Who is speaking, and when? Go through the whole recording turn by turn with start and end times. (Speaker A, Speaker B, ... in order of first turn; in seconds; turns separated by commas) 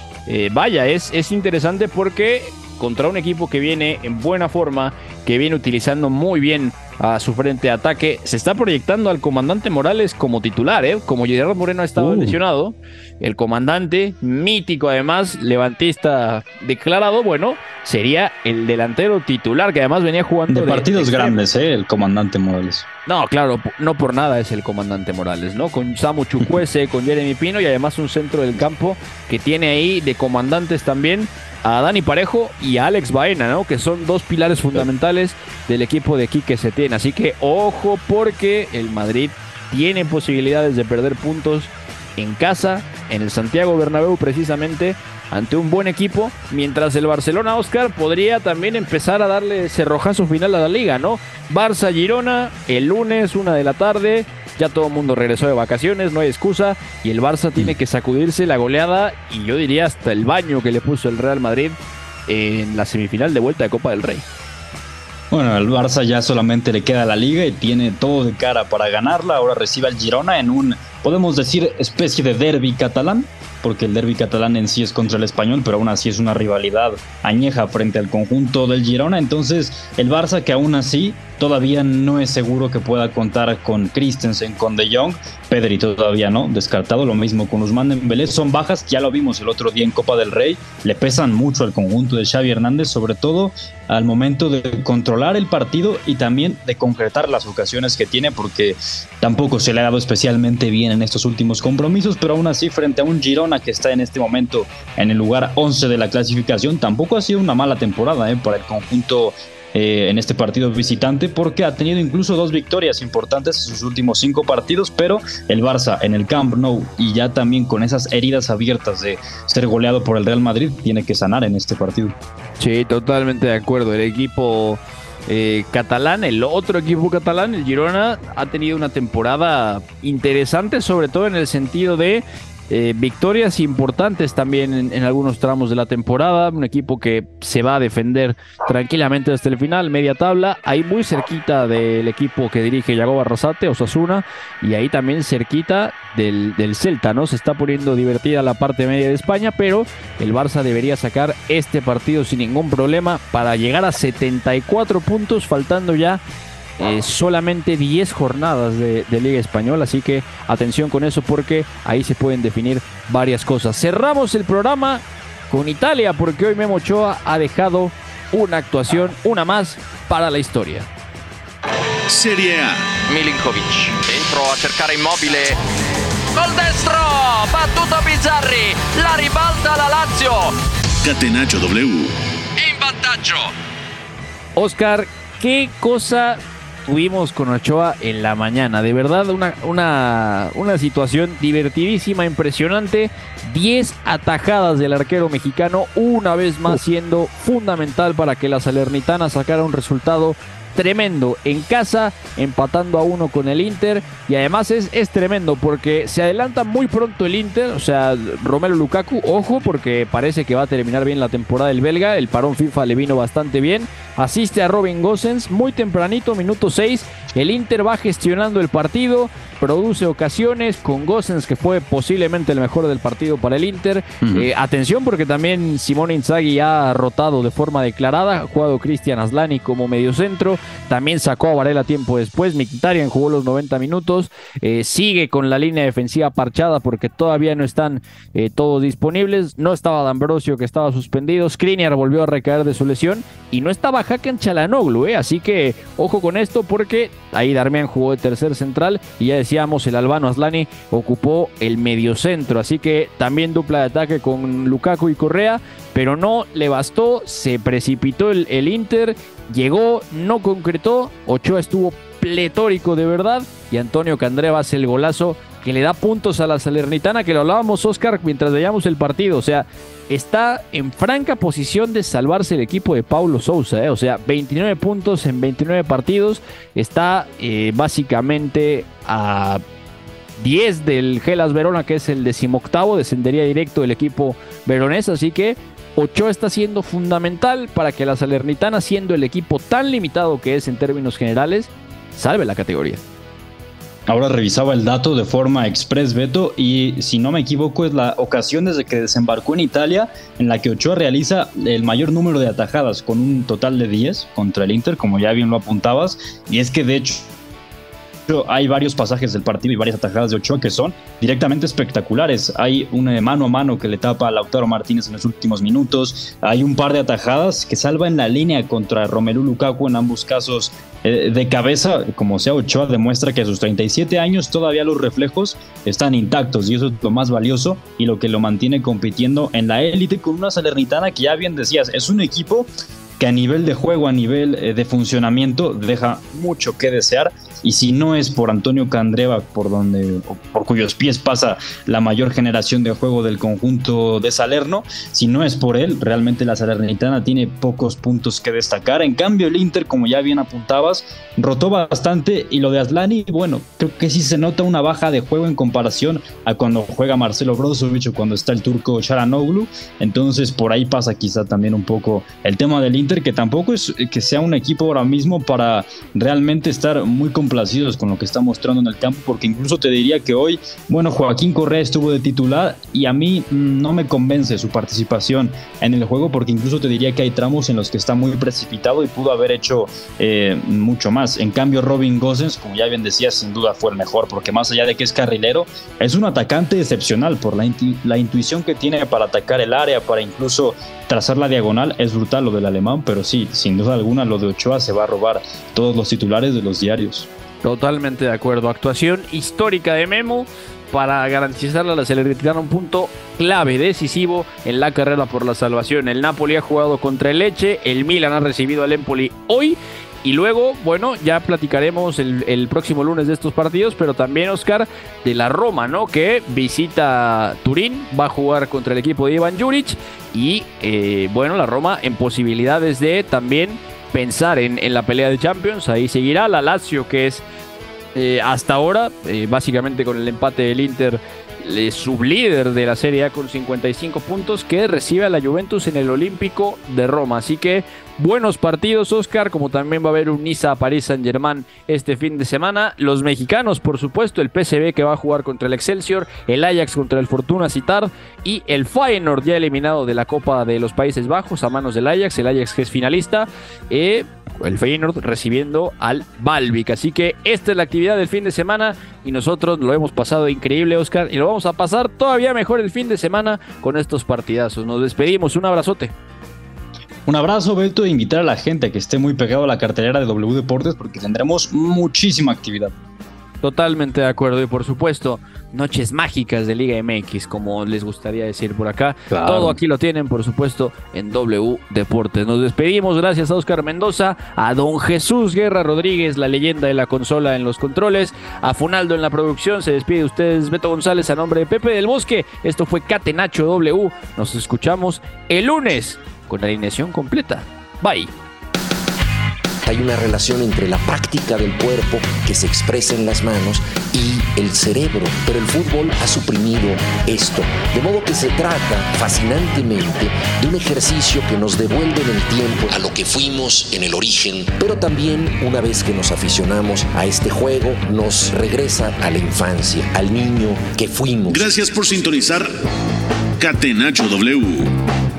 Speaker A: 0.3-21.4, Speaker B: 11.9-12.4, Speaker B: 20.5-22.9, Speaker A: 23.1-64.2, Speaker B: 65.3-122.1, Speaker A: 122.6-156.2, Speaker A: 156.8-170.9, Speaker C: 172.1-172.9, Speaker D: 173.1-175.6, Speaker D: 176.3-180.5, Speaker C: 181.0-182.1, Speaker D: 182.6-183.5, Speaker A: 184.6-279.6, Speaker B: 224.2-224.5, Speaker A: 280.4-293.0, Speaker B: 294.1-307.3, Speaker B: 308.3-397.3, Speaker A: 397.6-427.4, Speaker A: 428.1-466.1, Speaker B: 467.3-472.9, Speaker A: 473.6-498.3, Speaker B: 479.3-479.8, Speaker E: 499.8-521.7, Speaker C: 521.5-522.7, Speaker C: 523.6-524.9